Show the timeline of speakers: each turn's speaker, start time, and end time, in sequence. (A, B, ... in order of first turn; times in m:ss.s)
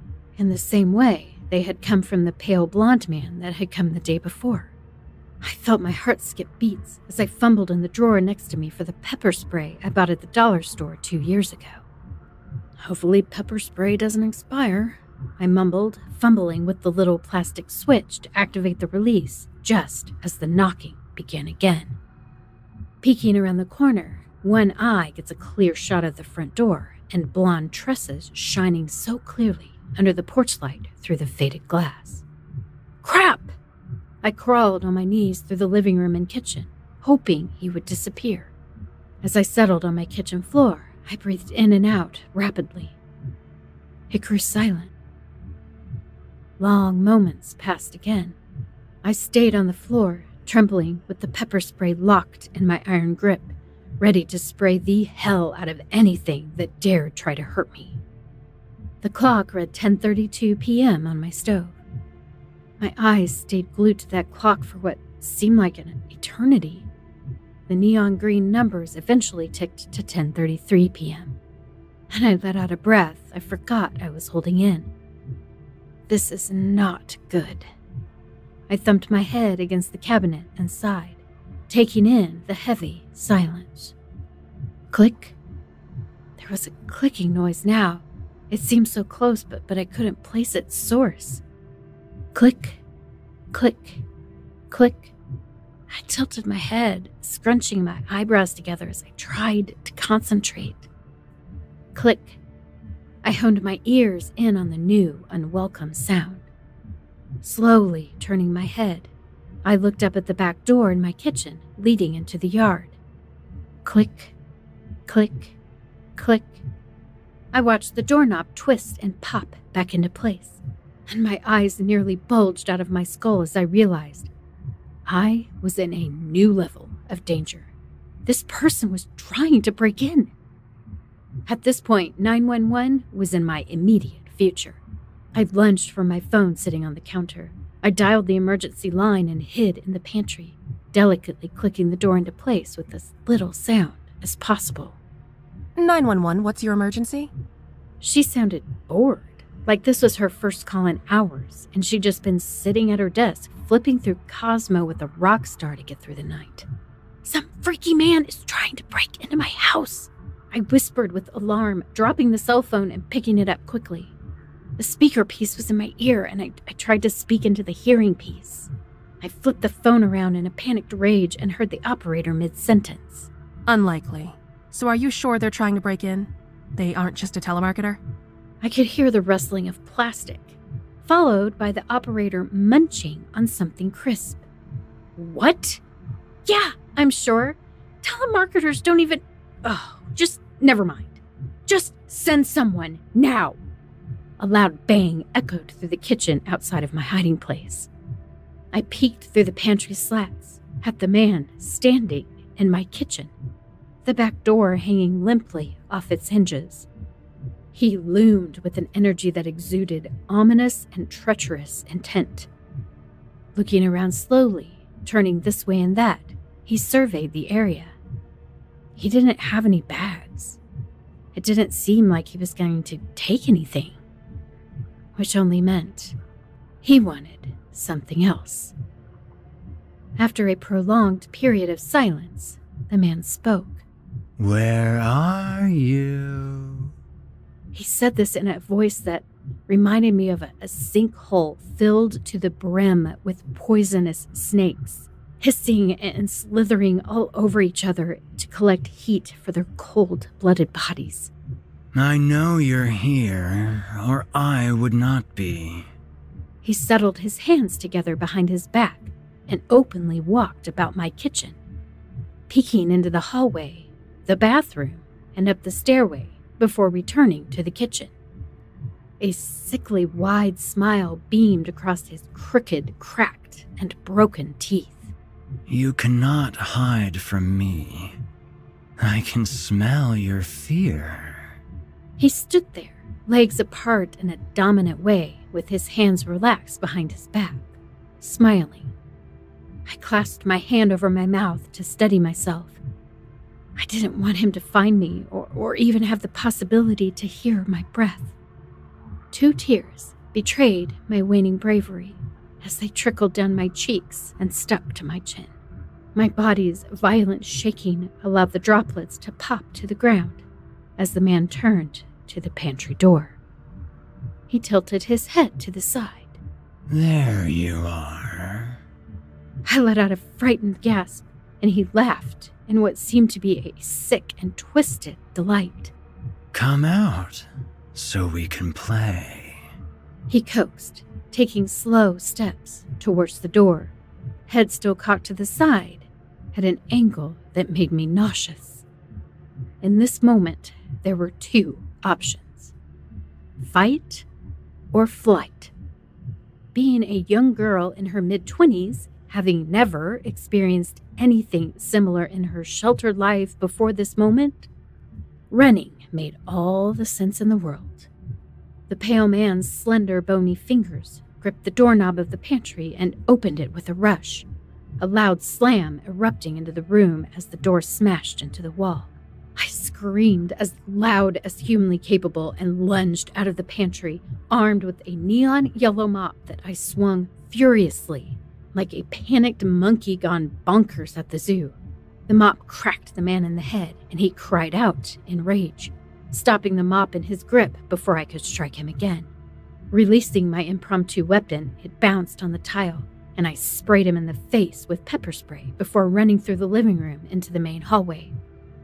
0:00.4-0:04.7 A
0:05.4-0:11.8 A
0:12.8-0:22.0 A
0:23.0-0:32.2 A
0:33.0-0:33.6 A
0:34.2-0:38.5 A
0:39.2-0:43.0 A
0:44.1-0:44.9 A
0:46.6-0:48.4 A
0:49.0-0:58.0 A
0:59.0-1:01.7 A
1:02.8-1:06.9 A
1:07.7-1:11.4 A
1:12.1-1:14.9 A
1:16.1-1:17.7 A
1:18.7-1:23.9 A
1:24.9-1:25.4 A
1:26.4-1:31.4 A
1:32.3-1:32.8 A
1:33.5-1:34.0 A
1:34.7-1:35.1 A
1:35.9-1:40.9 A
1:42.0-1:42.4 A
1:43.2-1:46.4 A
1:47.4-1:49.1 A
1:49.6-1:52.9 A
1:53.8-1:54.3 A
1:55.1-1:55.6 A
1:56.2-1:56.6 A
1:57.5-2:04.3 A
2:05.0-2:07.7 A
2:08.3-2:10.3 A
2:11.4-2:14.8 A
2:15.3-2:25.0 A
2:25.8-2:27.3 B
2:28.0-2:36.7 A
2:37.2-2:44.1 A
2:44.8-2:48.7 A
2:49.2-2:53.3 A
2:53.7-2:58.0 B
2:58.6-3:04.4 A
3:05.2-3:05.8 A
3:06.4-3:13.6 A
3:14.4-3:17.9 A
3:18.7-3:23.3 A
3:24.0-3:26.9 A
3:27.7-3:32.5 A
3:33.6-3:37.9 A
3:39.0-3:40.6 A
3:41.3-3:44.0 A
3:45.2-3:46.1 A
3:46.8-3:48.7 A
3:50.2-3:53.8 A
3:54.4-3:56.9 C
3:57.7-4:11.3 A
4:11.9-4:15.9 C
4:16.6-4:21.6 A
4:22.5-4:28.1 A
4:29.2-4:35.1 A
4:35.7-4:38.1 C
4:39.0-4:41.5 C
4:42.2-4:48.9 A
4:49.9-4:52.8 A
4:53.8-4:58.3 A
4:59.3-5:05.5 A
5:06.1-5:10.4 A
5:11.0-5:13.4 A
5:14.5-5:16.4 A
5:16.9-5:18.8 C
5:19.6-5:25.9 A
5:26.5-5:29.6 C
5:30.3-5:33.9 A
5:34.5-5:38.8 A
5:39.8-5:42.7 A
5:43.6-5:44.3 A
5:44.9-5:45.7 A
5:46.7-5:54.7 A
5:55.5-5:58.1 A
5:58.9-6:04.5 A
6:05.0-6:21.8 A
6:22.3-6:29.3 A
6:29.9-6:38.3 A